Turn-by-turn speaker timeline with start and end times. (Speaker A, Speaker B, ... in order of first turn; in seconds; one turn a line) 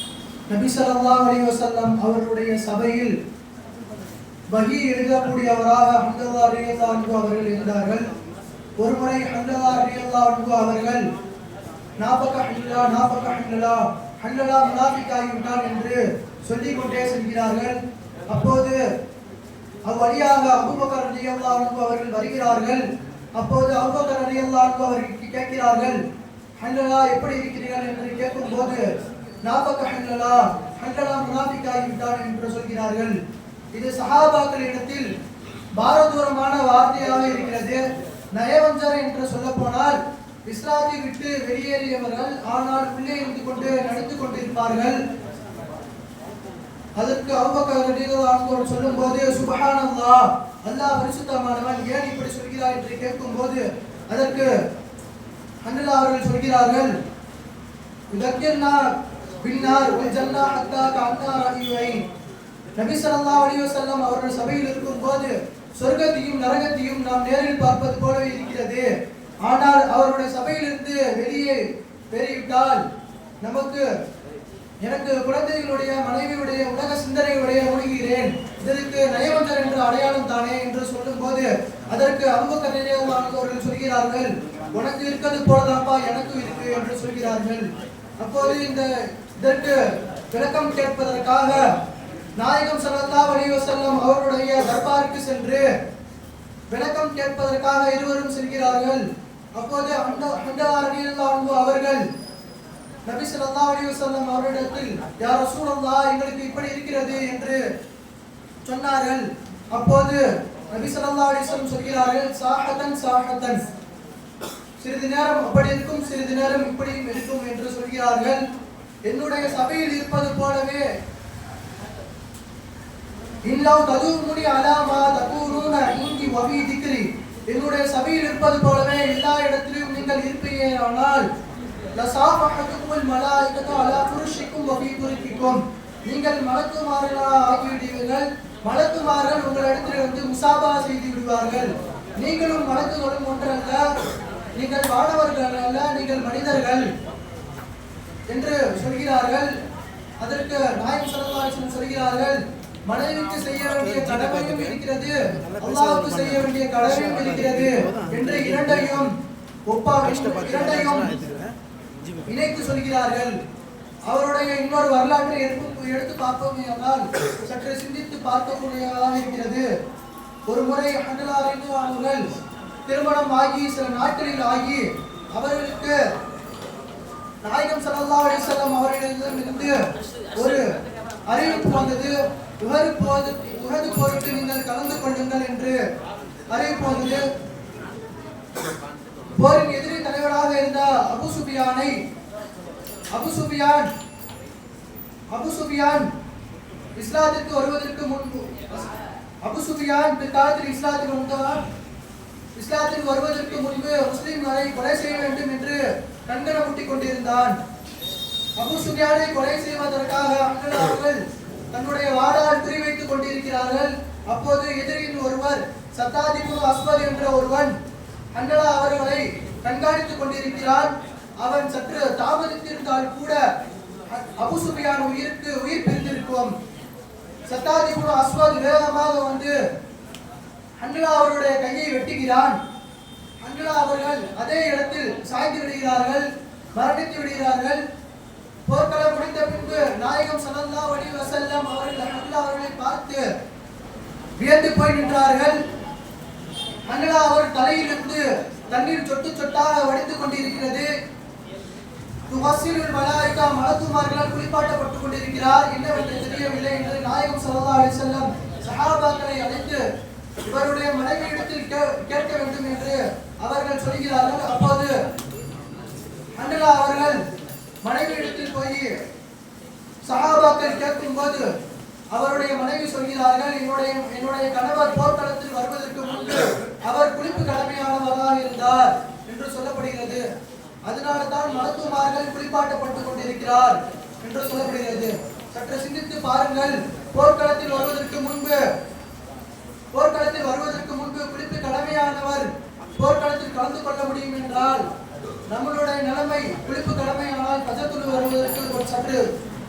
Speaker A: 0.5-3.1
Speaker A: 4.5-8.1
Speaker A: 8.8-11.0
Speaker A: 12.0-17.8
Speaker A: 18.3-18.8
Speaker A: 19.9-22.8
Speaker A: 23.4-26.0
Speaker A: 26.6-28.8
Speaker A: 29.4-33.1
Speaker A: 33.7-35.1
Speaker A: 35.8-37.8
Speaker A: 38.3-45.0
Speaker A: 47.0-54.5
Speaker A: 55.6-56.9
Speaker A: 58.1-58.8
Speaker A: 59.4-62.0
Speaker A: 62.8-68.9
Speaker A: 69.4-72.8
Speaker A: 73.4-73.8
Speaker A: 74.8-87.7
Speaker A: 88.2-88.9
Speaker A: 89.4-89.8
Speaker A: 90.3-91.6
Speaker A: 92.4-95.7
Speaker A: 96.7-102.0
Speaker A: 103.1-107.6
Speaker A: 108.7-113.6
Speaker A: 114.8-118.4
Speaker A: 119.1-120.8
Speaker A: 123.5-131.3
Speaker A: 132.0-143.9
Speaker A: 144.6-146.9
Speaker A: 148.3-149.5
Speaker A: 150.2-159.1
Speaker A: 159.7-161.2
Speaker A: 162.3-163.4
Speaker A: 164.1-169.7
Speaker A: 170.5-172.3
Speaker A: 172.9-176.0
Speaker A: 177.4-179.8
Speaker A: 180.3-180.7
Speaker A: 181.3-185.8
Speaker A: 186.5-187.2
Speaker A: 189.3-191.9
Speaker A: 193.1-193.9
Speaker A: 195.3-196.1
Speaker A: 197.0-198.9
Speaker A: 199.4-201.6
Speaker A: 202.6-207.6
Speaker A: 208.6-217.7
Speaker A: 218.3-223.4
Speaker A: 224.1-226.5
Speaker A: 227.5-229.5
Speaker A: 230.8-232.6
Speaker A: 233.4-237.8
Speaker A: 238.7-243.2
Speaker A: 244.4-245.6
Speaker A: 246.9-250.9
Speaker A: 252.3-259.8
Speaker A: 260.4-264.9
Speaker A: 266.4-267.2
Speaker A: 267.8-268.9
Speaker A: 270.1-271.5
Speaker A: 272.1-280.2
Speaker A: 280.9-288.6
Speaker A: 289.9-294.8
Speaker A: 295.5-299.2